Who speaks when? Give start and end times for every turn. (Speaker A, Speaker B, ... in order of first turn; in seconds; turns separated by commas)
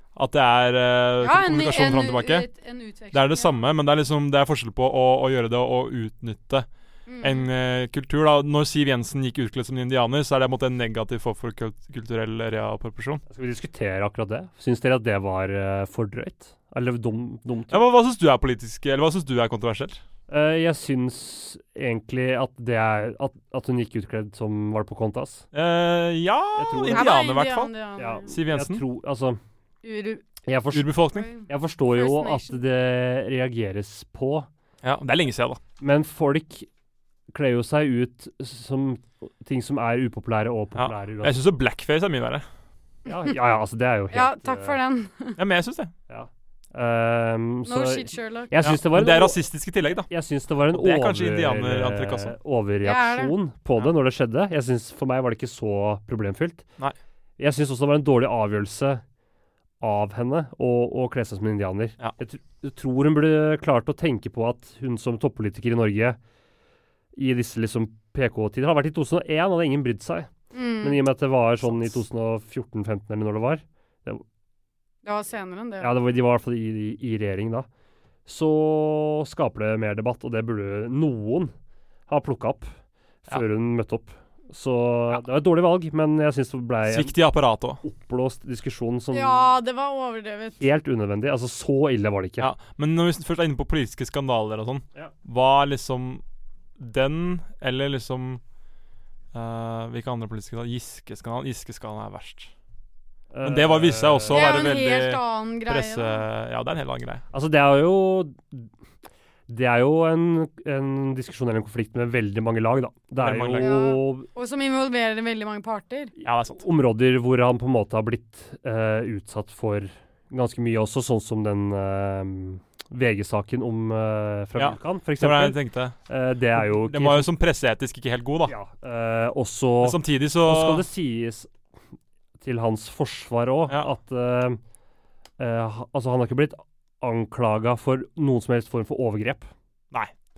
Speaker A: 0.1-2.5, Speaker B: 1.2-3.6, Speaker A: 3.1-6.7, Speaker B: 7.1-7.5, Speaker A: 7.2-13.2, Speaker C: 13.3-17.8, Speaker A: 17.7-20.0, Speaker C: 20.3-25.5, Speaker A: 25.5-27.7, Speaker C: 26.6-27.2, Speaker B: 26.9-28.3, Speaker C: 28.0-29.4, Speaker A: 28.3-28.8, Speaker B: 29.8-30.2, Speaker C: 30.5-34.5, Speaker A: 30.7-31.3, Speaker B: 31.1-32.6, Speaker A: 34.8-35.6, Speaker C: 35.8-36.7, Speaker C: 37.3-41.4, Speaker A: 40.8-42.5, Speaker C: 43.1-44.8, Speaker B: 44.1-45.4, Speaker A: 45.4-45.9, Speaker C: 46.1-49.5, Speaker B: 47.7-48.5, Speaker A: 48.6-50.1, Speaker C: 50.1-56.7, Speaker A: 50.7-52.4, Speaker B: 52.8-53.3, Speaker C: 57.4-59.0, Speaker C: 59.8-66.2, Speaker C: 67.2-74.2, Speaker B: 70.5-71.0, Speaker B: 75.0-75.9, Speaker C: 75.8-77.7, Speaker C: 78.3-81.5, Speaker C: 82.1-82.7, Speaker C: 83.2-87.2, Speaker A: 86.9-87.8, Speaker C: 87.8-89.5, Speaker B: 89.1-90.6, Speaker C: 90.6-92.5, Speaker A: 92.4-96.2, Speaker A: 96.8-98.4, Speaker A: 99.3-102.5, Speaker C: 103.3-104.7, Speaker A: 103.4-107.2, Speaker B: 104.3-106.2, Speaker C: 107.3-108.7, Speaker C: 109.5-114.3, Speaker A: 113.2-113.7, Speaker B: 113.6-116.1, Speaker A: 116.2-116.6, Speaker C: 116.6-127.3, Speaker A: 124.5-126.0, Speaker A: 126.5-128.5, Speaker C: 128.5-131.5, Speaker A: 129.8-130.8, Speaker C: 132.4-134.6, Speaker C: 135.4-139.5